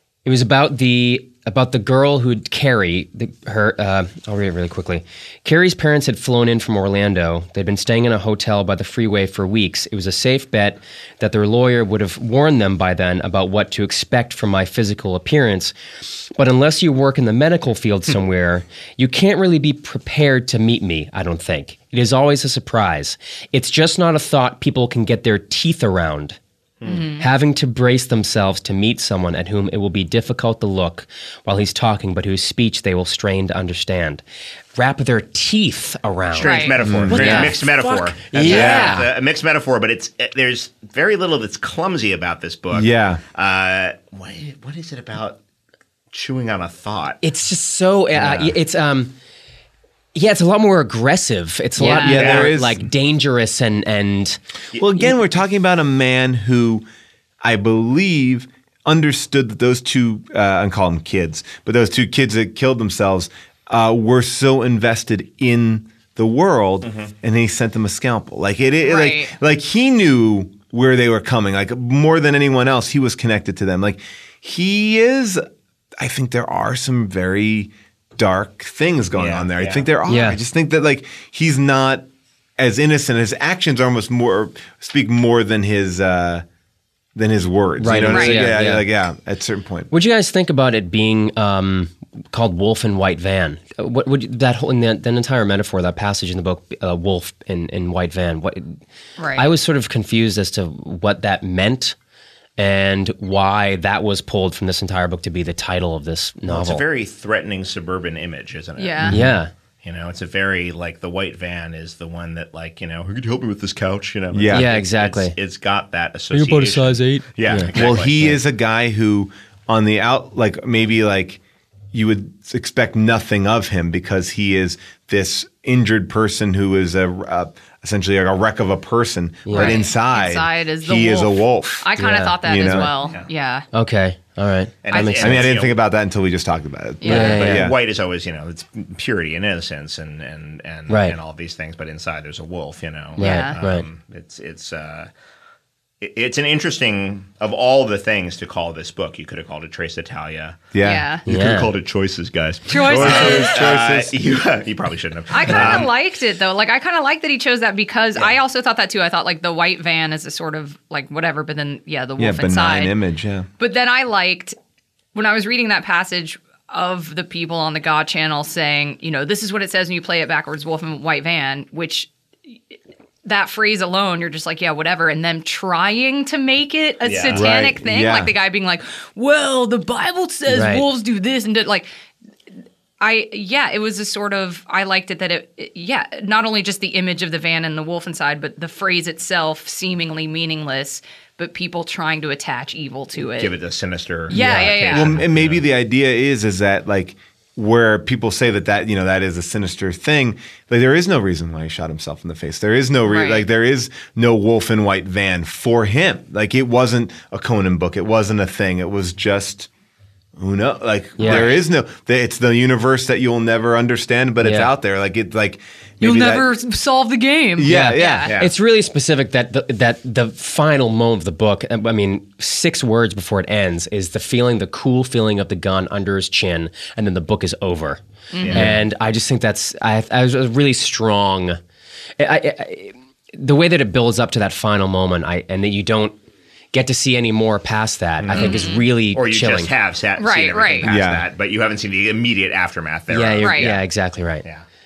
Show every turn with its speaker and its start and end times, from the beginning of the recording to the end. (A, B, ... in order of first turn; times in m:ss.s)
0:00.2-0:15.7 A
0:16.3-0:26.4 A
0:26.8-0:27.1 B
0:26.8-0:27.2 C
0:27.2-0:34.2 A
0:34.8-0:39.1 A
0:36.3-0:45.4 B
0:36.4-0:37.5 C
0:36.8-0:37.5 D
0:38.4-0:39.0 D
0:42.7-0:43.2 D
0:46.1-0:47.2 B
0:47.2-0:49.1 A
0:48.1-0:48.5 B
0:50.1-0:54.4 A
0:51.8-0:52.3 C
0:51.8-0:52.8 D
0:52.0-0:52.5 B
0:54.8-0:56.8 D
0:57.4-1:15.4 D
1:06.8-1:07.1 B
1:08.8-1:09.3 C
1:16.0-1:22.0 D
1:19.1-1:19.9 B
1:20.1-1:20.4 A
1:22.6-1:26.4 D
1:27.1-1:29.9 D
1:27.8-1:28.8 A
1:28.0-1:28.5 C
1:29.9-1:38.8 A
1:39.2-1:39.5 C
1:39.3-1:42.0 A
1:42.6-1:46.8 A
1:46.5-1:49.2 B
1:48.8-1:49.2 C
1:49.0-1:49.3 D
1:49.1-1:49.5 A
1:49.8-1:58.4 B
1:54.3-1:54.7 D
1:54.5-1:55.3 A
1:56.3-1:57.8 A
1:57.7-2:01.4 D
2:01.9-2:11.9 D
2:09.4-2:09.8 A
2:09.5-2:13.6 C
2:12.0-2:12.9 A
2:12.4-2:12.9 D
2:13.7-2:15.4 A
2:14.8-2:15.8 B
2:14.9-2:15.2 C
2:15.2-2:17.8 D
2:17.0-2:17.4 C
2:17.0-2:17.7 A
2:17.1-2:25.1 B
2:20.9-2:21.2 A
2:23.2-2:23.8 A
2:23.2-2:23.6 C
2:26.0-2:35.9 B
2:30.7-2:31.1 D
2:30.8-2:31.2 C
2:31.2-2:31.7 A
2:32.7-2:33.6 C
2:32.8-2:34.1 D
2:35.3-2:42.9 C
2:35.5-2:35.8 D
2:42.2-2:43.5 D
2:43.6-2:44.6 C
2:45.1-2:52.1 C
2:53.2-3:01.9 C
2:57.0-2:57.5 B
2:57.3-2:58.3 D
3:00.5-3:00.8 A
3:03.0-3:13.5 C
3:13.2-3:15.6 B
3:14.3-3:14.8 A
3:14.3-3:15.2 C
3:14.9-3:29.7 D
3:23.0-3:23.4 C
3:30.4-3:36.5 D
3:31.2-3:31.5 A
3:31.2-3:31.6 C
3:34.4-3:34.7 A
3:36.0-3:38.3 C
3:37.6-3:38.3 D
3:37.6-3:48.0 A
3:38.2-3:38.5 B
3:48.3-3:48.6 C
3:48.4-3:48.7 B
3:48.5-3:48.8 D
3:48.5-3:51.6 A
3:52.2-3:56.2 A
3:56.7-3:59.7 A
3:58.2-4:03.8 B
3:58.3-3:58.8 C
4:00.2-4:00.8 C
4:00.8-4:01.2 D
4:03.1-4:04.4 A
4:03.4-4:03.7 C